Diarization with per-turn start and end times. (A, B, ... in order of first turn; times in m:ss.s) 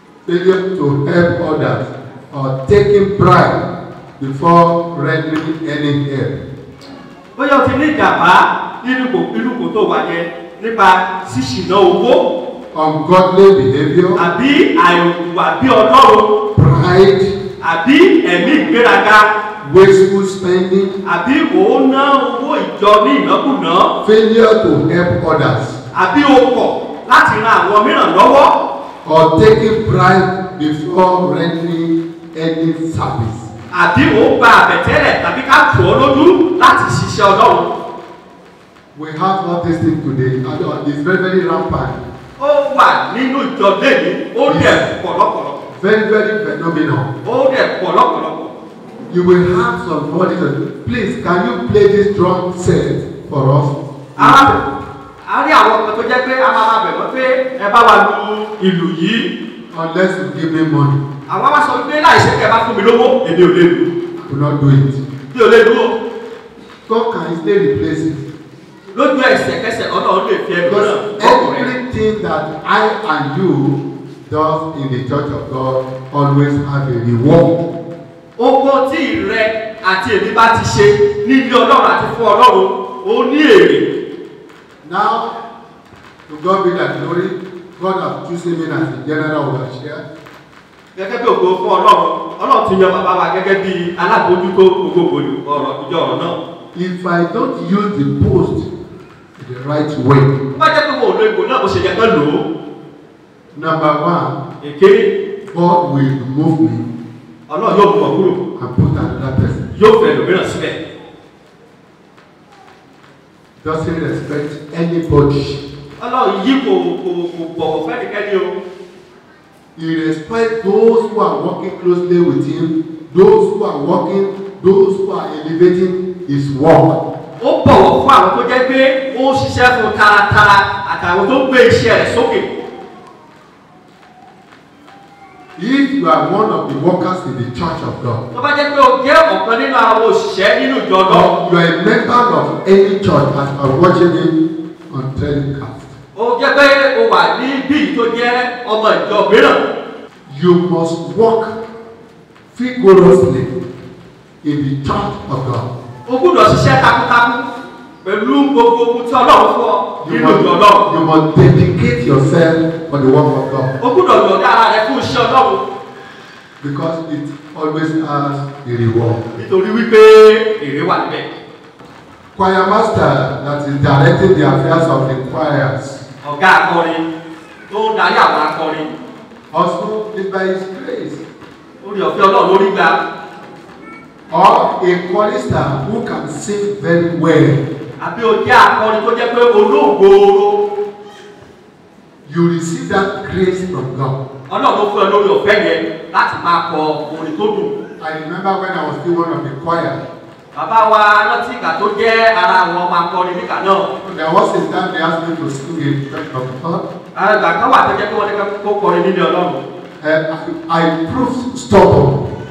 0:00.2-0:03.6 A
0:04.2-0:06.4 A
0:07.4-0:12.3 B
0:12.7-0:14.2 A
0:14.1-0:16.3 B
0:16.5-0:17.4 A
0:17.6-0:19.3 B
0:19.6-0:21.0 A
0:21.0-0:23.9 B
0:24.0-0:25.8 A
0:25.9-0:28.6 B
0:29.0-0:33.5 A
0:33.7-0:37.7 B
0:38.9-0:42.0 A
0:42.4-0:45.6 B
0:44.4-0:44.9 A
0:45.7-0:47.1 A
0:47.2-0:48.5 B
0:49.1-0:54.6 A
0:54.2-0:54.6 B
0:55.2-0:59.3 B
0:59.7-1:01.0 A
1:01.3-1:03.9 B
1:04.2-1:05.0 A
1:05.3-1:05.9 B
1:06.9-1:08.2 A
1:08.9-1:11.7 B
1:10.6-1:17.6 A
1:18.4-1:23.9 B
1:24.8-1:25.3 A
1:26.3-1:30.0 A
1:31.0-1:36.4 B
1:36.7-1:38.7 A
1:39.4-1:40.3 A
1:40.5-1:42.4 B
1:43.5-1:44.4 A
1:44.6-1:45.1 B
1:45.5-1:46.8 A
1:47.5-1:48.4 B
1:48.6-1:49.6 A
1:49.7-1:50.8 B
1:53.6-1:55.6 A
1:56.0-1:58.5 B
1:59.8-2:07.0 A
2:07.4-2:12.5 B
2:15.6-2:18.2 A
2:18.3-2:21.3 B
2:21.1-2:24.4 A
2:24.9-2:25.9 A
2:26.1-2:29.6 B
2:30.3-2:31.5 A
2:32.5-2:33.5 A
2:34.4-2:35.7 A
2:36.0-2:37.4 B
2:38.0-2:40.8 B
2:40.0-2:43.7 A
2:43.8-2:45.6 B
2:46.6-2:49.2 A
2:49.4-2:51.3 B
2:52.3-2:56.0 A
2:56.2-2:57.0 B
2:57.7-2:58.9 B
2:59.5-3:01.2 A
3:01.8-3:03.0 B
3:04.3-3:07.6 A
3:08.0-3:10.6 B
3:12.2-3:14.2 A
3:14.5-3:17.7 B
3:18.0-3:20.0 A
3:20.5-3:23.9 B
3:24.0-3:26.8 A
3:27.1-3:29.6 B
3:30.0-3:32.3 A